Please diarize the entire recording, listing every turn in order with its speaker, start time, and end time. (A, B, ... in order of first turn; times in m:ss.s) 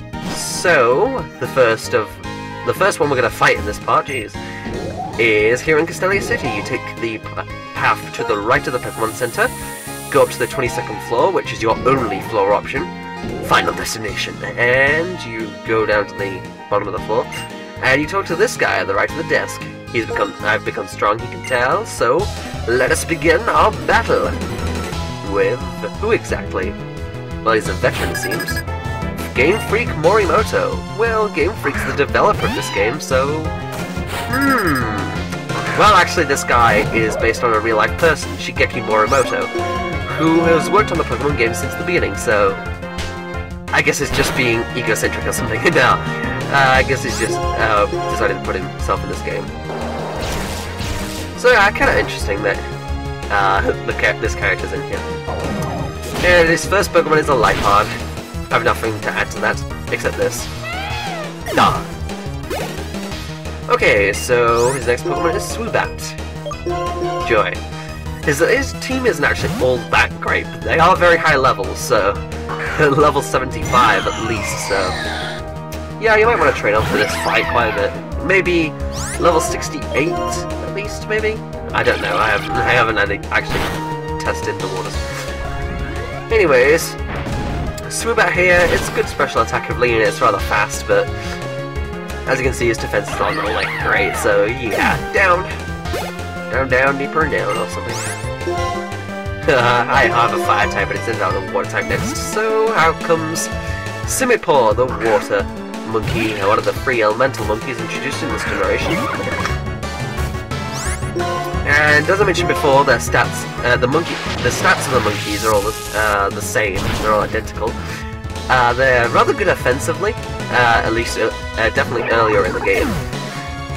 0:00.3-0:04.4 A
0:05.2-0:09.5 A
0:10.1-0:17.3 A
0:17.8-0:24.5 A
0:25.2-0:26.8 A
0:27.4-0:28.6 A
0:29.2-0:33.6 A
0:34.3-0:42.6 A
0:43.7-0:49.5 A
0:51.4-0:52.6 A
0:53.3-0:55.0 A
0:56.2-0:58.0 A
0:58.5-1:00.5 A
1:01.5-1:01.9 A
1:03.7-1:06.2 A
1:07.2-1:07.6 A
1:08.2-1:15.0 A
1:16.0-1:25.1 A
1:26.3-1:27.0 A
1:27.9-1:31.1 A
1:32.3-1:35.6 A
1:36.5-1:38.2 A
1:39.4-1:43.5 A
1:44.0-1:49.2 A
1:51.6-1:57.8 A
1:58.5-2:03.0 A